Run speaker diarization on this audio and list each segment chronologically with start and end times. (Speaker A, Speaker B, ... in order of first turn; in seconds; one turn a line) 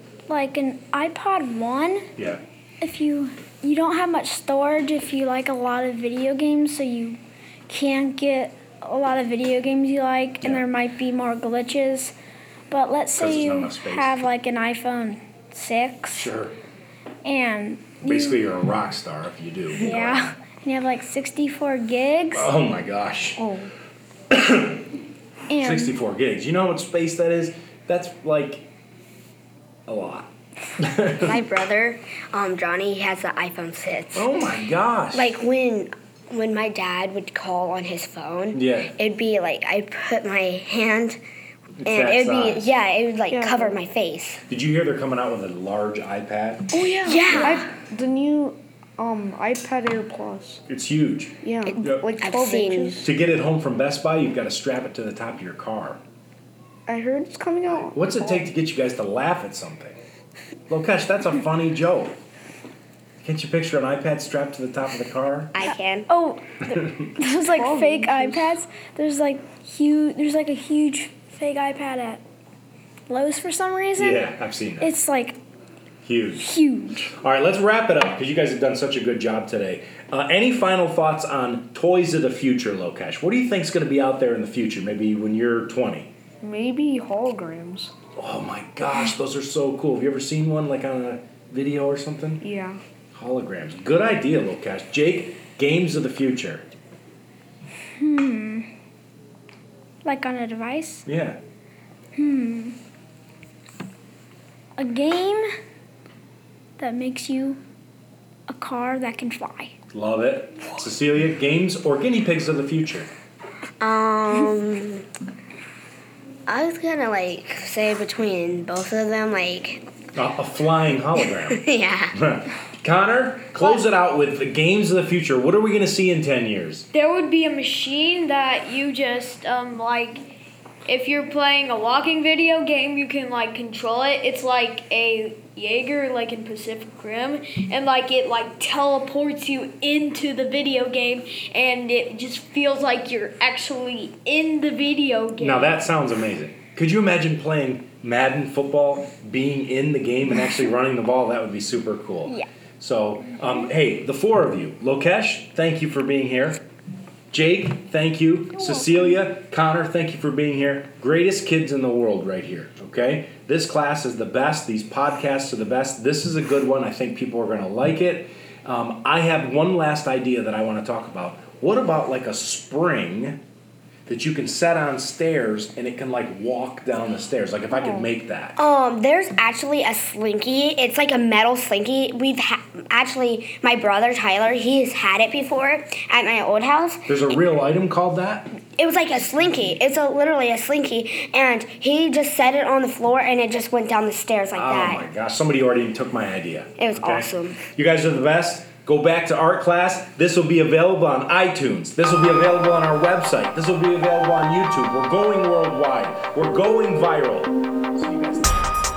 Speaker A: 0.3-2.1
Speaker A: 2.8-12.2
Speaker B: 10.4-10.7
Speaker A: 12.7-16.3
Speaker B: 13.2-14.2
Speaker B: 16.1-16.6
Speaker A: 17.2-18.5
Speaker B: 18.0-20.4
Speaker A: 19.7-22.5
Speaker B: 22.3-23.4
Speaker C: 23.4-23.7
Speaker B: 24.3-24.9
Speaker A: 25.5-26.0
Speaker B: 25.6-28.6
Speaker B: 29.9-31.4
Speaker D: 31.1-34.4
Speaker B: 34.1-35.3
Speaker D: 35.1-41.2
Speaker B: 38.5-38.9
Speaker B: 41.8-42.8
Speaker D: 41.9-44.4
Speaker C: 43.3-43.8
Speaker B: 44.5-46.7
Speaker C: 46.7-50.6
Speaker D: 47.1-47.7
Speaker B: 47.3-47.5
Speaker B: 50.7-52.1
Speaker C: 51.4-53.1
Speaker D: 51.6-53.0
Speaker B: 53.0-56.0
Speaker C: 56.9-58.5
Speaker B: 57.7-60.0
Speaker B: 60.7-62.2
Speaker B: 63.2-65.5
Speaker D: 65.5-66.1
Speaker A: 65.7-72.2
Speaker C: 67.5-68.5
Speaker A: 73.1-75.4
Speaker B: 74.0-74.9
Speaker B: 76.0-76.5
Speaker A: 76.4-77.1
Speaker B: 77.2-86.1
Speaker C: 86.4-87.9
Speaker B: 88.2-92.4
Speaker C: 92.4-92.8
Speaker B: 93.1-96.7
Speaker A: 98.0-98.7
Speaker A: 100.0-101.0
Speaker B: 101.1-101.4
Speaker A: 102.2-102.8
Speaker A: 104.8-105.5
Speaker A: 106.8-107.6
Speaker A: 108.5-109.7
Speaker B: 109.9-113.1
Speaker D: 113.8-115.1
Speaker D: 116.5-119.8
Speaker B: 120.2-126.9
Speaker D: 121.2-122.2
Speaker E: 127.0-130.0
Speaker E: 130.9-134.9
Speaker E: 137.2-145.5
Speaker B: 145.4-156.6
Speaker A: 153.3-153.7
Speaker B: 157.3-173.4
Speaker A: 158.6-159.2
Speaker B: 174.1-178.6
Speaker C: 177.8-178.1
Speaker D: 178.6-187.2
Speaker B: 187.1-188.5
Speaker D: 188.7-195.1
Speaker B: 194.6-208.7
Speaker D: 196.8-197.6